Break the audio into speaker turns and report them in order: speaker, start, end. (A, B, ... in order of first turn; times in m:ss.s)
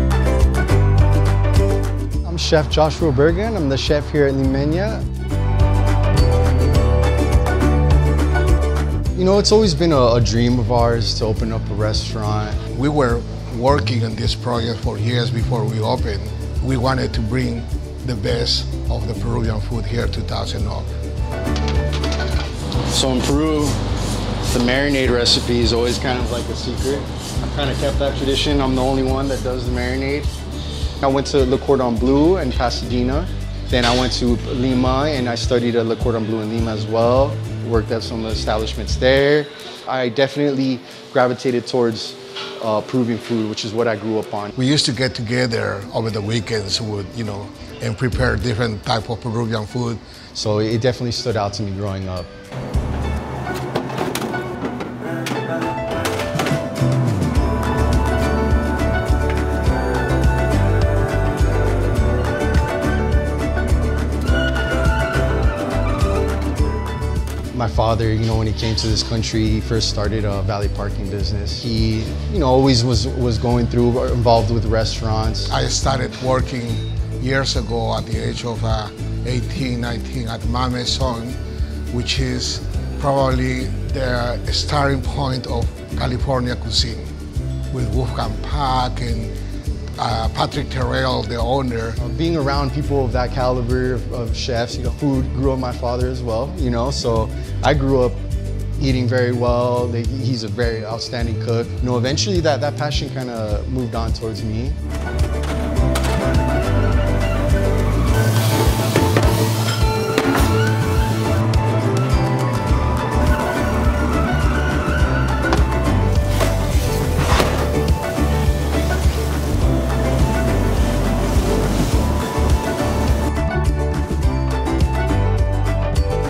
0:02.2-0:05.1 A
0:09.1-0:12.6 A
0:12.7-0:20.9 B
0:22.9-0:23.8 A
0:24.5-0:30.3 A
0:31.0-0:44.5 A
0:44.6-0:50.0 B
0:50.4-0:52.3 A
1:07.5-1:15.5 A
1:15.5-1:21.4 B
1:21.9-1:27.1 B
1:27.7-1:29.3 B
1:30.0-1:32.0 B
1:32.0-1:38.3 A
1:38.8-1:44.8 A